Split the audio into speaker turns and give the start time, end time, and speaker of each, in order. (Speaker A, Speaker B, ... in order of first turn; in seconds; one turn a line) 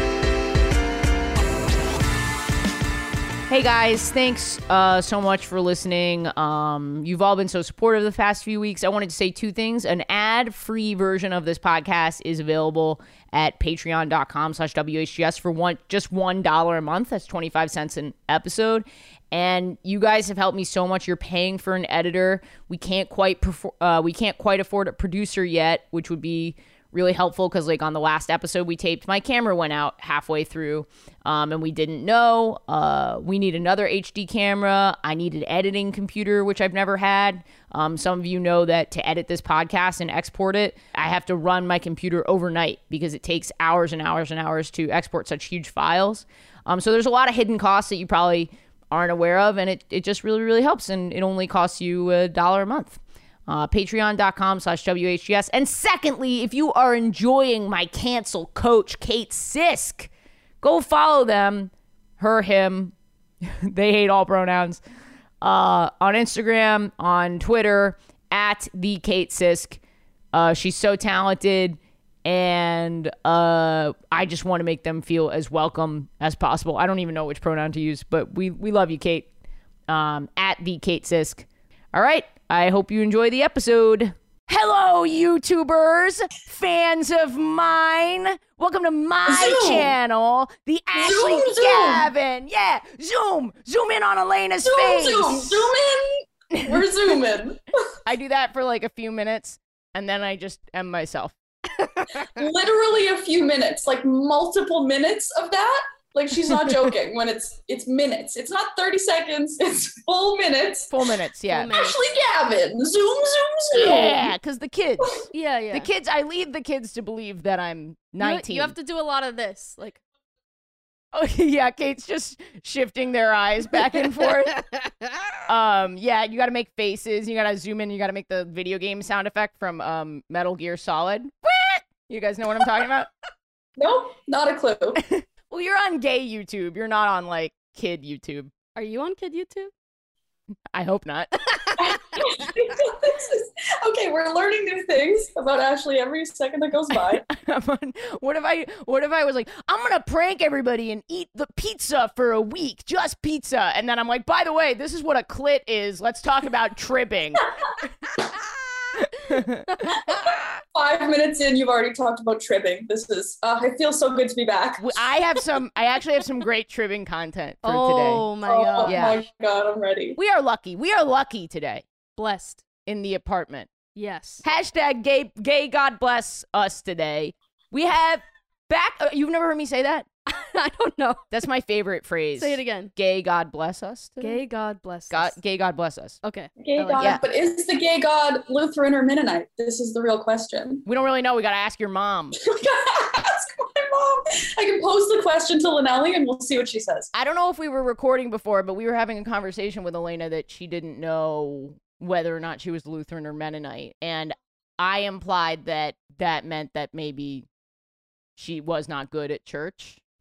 Speaker A: 3.5-60.1
Speaker A: 60.6-64.8
Speaker A: 65.4-69.8
Speaker A: 70.3-79.3
Speaker A: 79.9-95.7
Speaker B: 89.2-89.9
Speaker B: 90.9-92.1
Speaker B: 94.6-97.6
Speaker A: 96.5-96.9
Speaker A: 98.0-101.3
Speaker B: 102.2-111.0
Speaker A: 110.9-111.8
Speaker C: 111.5-112.0
Speaker B: 111.7-114.3
Speaker A: 113.7-115.1
Speaker C: 115.3-115.9
Speaker A: 115.7-118.7
Speaker C: 118.2-120.0
Speaker A: 121.1-124.6
Speaker A: 125.5-133.1
Speaker B: 133.8-135.0
Speaker A: 135.0-138.5
Speaker C: 138.7-139.7
Speaker A: 140.7-141.9
Speaker B: 141.8-147.2
Speaker A: 147.0-157.5
Speaker A: 159.2-159.7
Speaker B: 160.7-165.1
Speaker A: 164.8-168.2
Speaker C: 167.6-169.2
Speaker B: 168.4-170.2
Speaker A: 168.8-169.2
Speaker A: 170.2-171.8
Speaker C: 172.2-172.6
Speaker A: 172.8-173.7
Speaker C: 173.9-174.4
Speaker A: 174.4-180.1
Speaker C: 180.3-181.2
Speaker A: 181.3-184.4
Speaker C: 182.4-182.9
Speaker C: 184.2-185.3
Speaker A: 185.1-186.2
Speaker C: 186.2-187.2
Speaker B: 186.6-190.8
Speaker A: 190.8-192.4
Speaker B: 192.3-197.1
Speaker A: 197.1-207.5
Speaker A: 208.4-210.0